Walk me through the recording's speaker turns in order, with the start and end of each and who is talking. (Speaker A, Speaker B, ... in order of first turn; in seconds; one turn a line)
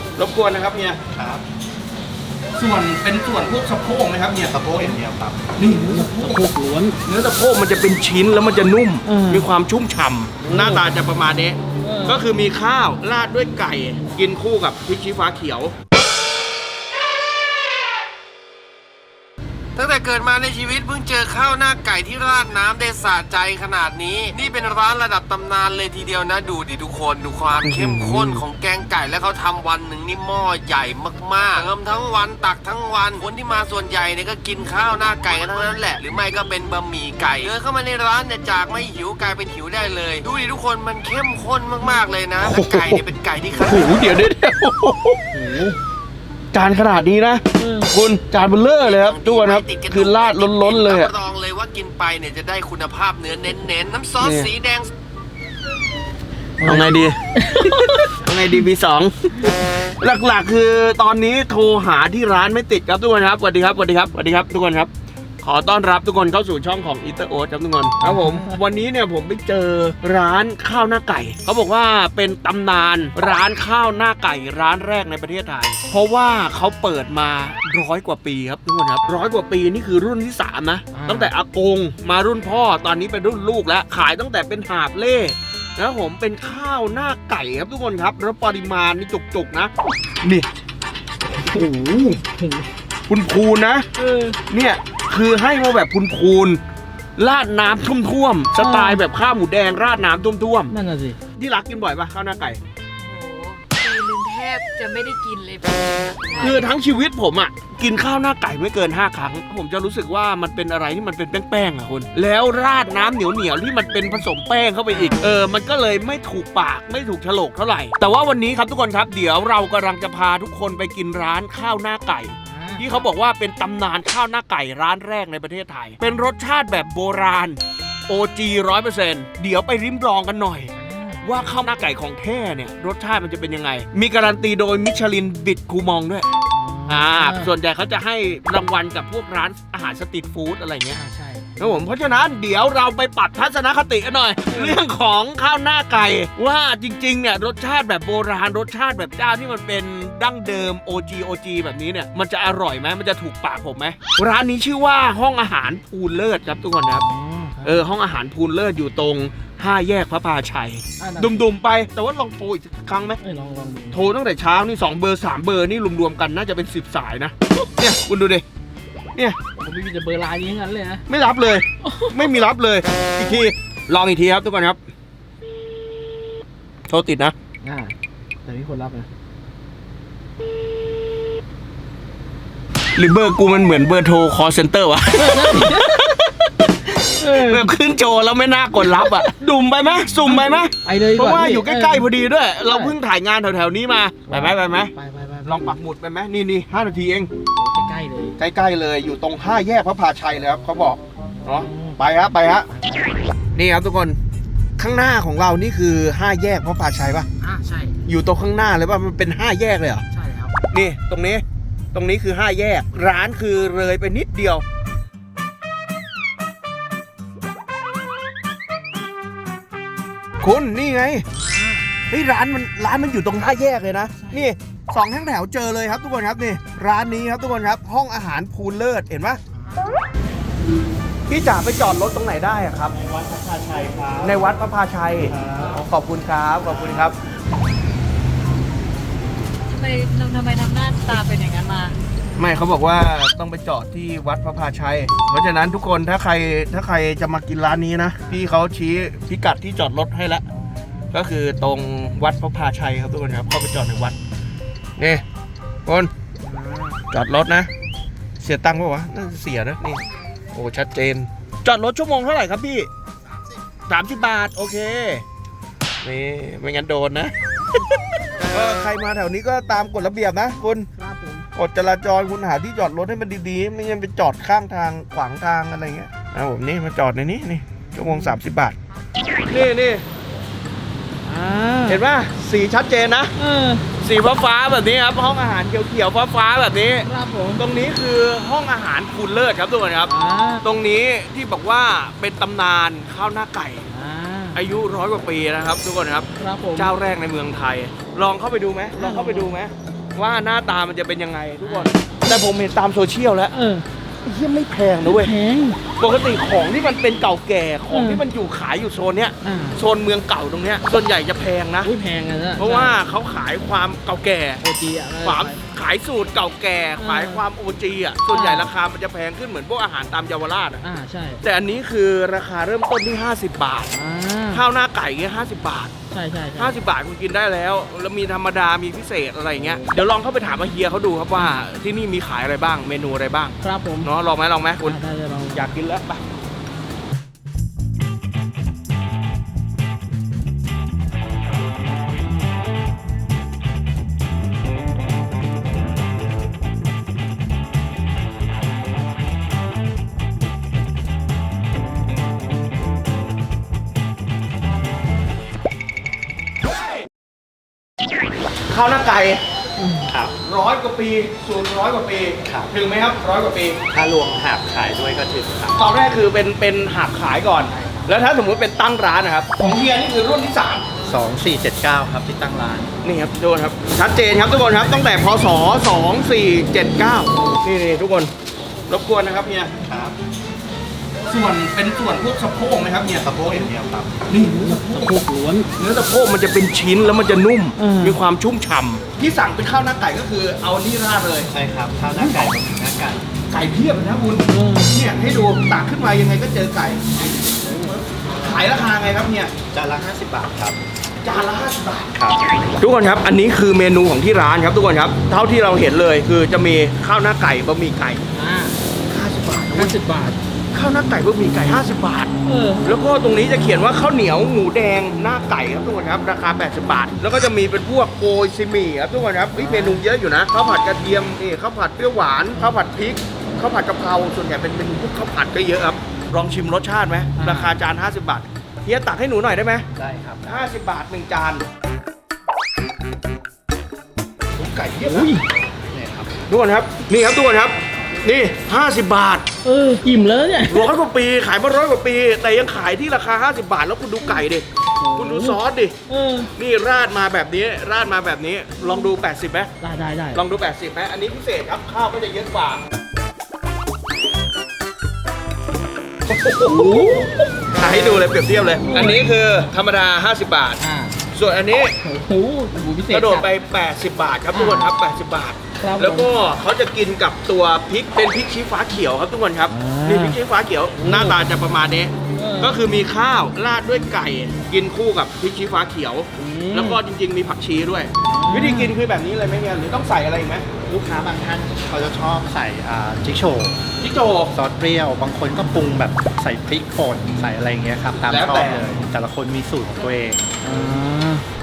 Speaker A: 0.2-1.0
Speaker B: 1.1-1.4
Speaker A: 2.6-5.0
Speaker B: 4.5-5.5
Speaker A: 5.6-6.5
Speaker C: 5.6-7.0
Speaker A: 7.1-15.7
Speaker C: 9.1-9.5
Speaker C: 10.4-10.8
Speaker C: 11.8-12.2
Speaker D: 19.8-44.0
Speaker A: 27.6-28.4
Speaker A: 42.5-43.0
Speaker A: 43.6-45.8
Speaker A: 46.5-51.1
Speaker C: 47.6-47.9
Speaker D: 48.8-54.9
Speaker A: 54.2-54.5
Speaker C: 56.6-58.1
Speaker A: 56.6-64.9
Speaker A: 65.4-90.5
Speaker C: 68.0-68.5
Speaker C: 80.9-81.3
Speaker A: 91.4-92.2
Speaker C: 92.2-92.7
Speaker A: 93.1-93.8
Speaker C: 94.0-94.4
Speaker A: 94.5-96.6
Speaker A: 97.2-100.8
Speaker C: 98.6-99.0
Speaker C: 100.7-101.2
Speaker A: 101.4-102.6
Speaker E: 103.0-106.7
Speaker A: 106.4-130.7
Speaker C: 114.9-115.2
Speaker C: 122.5-123.0
Speaker C: 130.8-131.3
Speaker A: 131.2-136.3
Speaker C: 136.6-137.5
Speaker A: 136.9-141.0
Speaker C: 140.9-141.7
Speaker A: 141.6-157.1
Speaker C: 144.5-144.8
Speaker C: 157.1-157.8
Speaker A: 157.6-163.2
Speaker C: 161.0-161.4
Speaker C: 163.2-164.0
Speaker A: 163.9-168.4
Speaker C: 169.6-171.0
Speaker A: 171.1-174.8
Speaker C: 171.8-172.3
Speaker A: 176.9-177.3
Speaker C: 177.6-177.9
Speaker C: 178.5-179.1
Speaker A: 183.0-194.9
Speaker C: 185.2-186.1
Speaker C: 187.0-187.7
Speaker C: 189.0-189.2
Speaker C: 190.2-192.1
Speaker C: 192.6-193.0
Speaker C: 194.3-195.8
Speaker A: 195.4-197.3
Speaker C: 197.6-198.4
Speaker A: 198.4-202.7
Speaker C: 201.5-202.0
Speaker C: 202.7-203.2
Speaker A: 203.5-204.2
Speaker A: 204.8-207.3
Speaker C: 207.4-208.0
Speaker A: 208.1-210.0
Speaker C: 210.1-210.6
Speaker A: 210.7-214.6
Speaker A: 220.4-221.2
Speaker C: 221.4-221.9
Speaker A: 222.1-229.4
Speaker A: 231.3-233.0
Speaker B: 233.2-234.1
Speaker A: 234.2-237.2
Speaker E: 239.7-242.0
Speaker A: 242.4-250.4
Speaker A: 251.1-254.2
Speaker A: 255.0-255.2
Speaker A: 255.9-256.1
Speaker C: 256.4-257.0
Speaker A: 257.1-257.7
Speaker A: 258.4-260.0
Speaker A: 260.5-262.9
Speaker A: 263.9-265.2
Speaker A: 266.0-267.3
Speaker A: 268.5-270.9
Speaker C: 271.0-271.4
Speaker A: 271.5-278.8
Speaker C: 277.9-278.2
Speaker A: 279.5-280.1
Speaker C: 281.3-282.0
Speaker A: 281.9-283.3
Speaker C: 283.4-283.8
Speaker A: 284.0-290.1
Speaker C: 287.1-287.6
Speaker C: 290.1-290.6
Speaker A: 290.6-293.9
Speaker C: 293.9-294.6
Speaker A: 294.5-303.5
Speaker C: 296.4-296.9
Speaker C: 299.0-299.5
Speaker C: 301.6-302.1
Speaker C: 303.5-303.9
Speaker A: 304.2-305.3
Speaker C: 305.1-305.8
Speaker A: 306.0-311.9
Speaker C: 307.9-308.2
Speaker C: 309.4-309.8
Speaker C: 311.8-313.0
Speaker A: 312.6-314.6
Speaker C: 314.6-315.6
Speaker A: 315.2-320.8
Speaker C: 317.0-317.4
Speaker C: 318.3-318.7
Speaker C: 320.8-321.4
Speaker A: 321.4-323.9
Speaker C: 323.9-324.6
Speaker A: 324.5-325.9
Speaker C: 326.1-326.8
Speaker A: 326.6-335.0
Speaker C: 333.6-334.1
Speaker C: 334.8-335.6
Speaker A: 335.5-336.2
Speaker A: 358.7-359.4
Speaker B: 360.1-360.3
Speaker A: 360.4-363.8
Speaker B: 362.5-362.7
Speaker B: 363.9-365.8
Speaker A: 365.8-370.9
Speaker B: 371.0-372.9
Speaker A: 373.0-378.3
Speaker A: 378.9-379.7
Speaker B: 379.9-380.2
Speaker A: 381.3-383.7
Speaker B: 383.1-384.2
Speaker A: 384.3-385.2
Speaker C: 384.4-385.7
Speaker A: 385.8-391.5
Speaker C: 387.8-388.2
Speaker B: 391.5-393.2
Speaker A: 392.1-392.4
Speaker A: 393.5-399.5
Speaker C: 394.5-394.9
Speaker B: 399.7-400.8
Speaker A: 401.2-402.2
Speaker A: 402.8-408.2
Speaker C: 408.4-408.8
Speaker A: 409.1-410.0
Speaker C: 409.7-410.4
Speaker A: 410.7-412.3
Speaker C: 412.4-412.8
Speaker A: 412.8-429.9
Speaker C: 419.6-420.0
Speaker C: 427.4-427.8
Speaker B: 429.9-430.7
Speaker A: 430.4-431.6
Speaker A: 434.6-435.3
Speaker C: 435.1-435.4
Speaker B: 435.9-436.3
Speaker A: 436.5-439.5
Speaker C: 439.6-440.9
Speaker A: 440.7-445.9
Speaker C: 445.0-446.5
Speaker A: 446.6-449.7
Speaker C: 449.8-450.4
Speaker A: 450.3-452.8
Speaker A: 456.3-460.8
Speaker C: 456.6-457.4
Speaker C: 458.8-459.2
Speaker C: 460.8-461.2
Speaker A: 461.3-461.9
Speaker C: 462.0-463.5
Speaker A: 463.1-480.7
Speaker C: 464.5-464.9
Speaker C: 465.8-466.3
Speaker C: 469.7-470.4
Speaker C: 471.0-471.4
Speaker C: 472.4-472.8
Speaker C: 476.4-477.0
Speaker C: 478.3-478.9
Speaker B: 480.9-483.8
Speaker A: 484.0-484.5
Speaker B: 484.5-490.5
Speaker A: 488.2-488.9
Speaker C: 490.6-491.4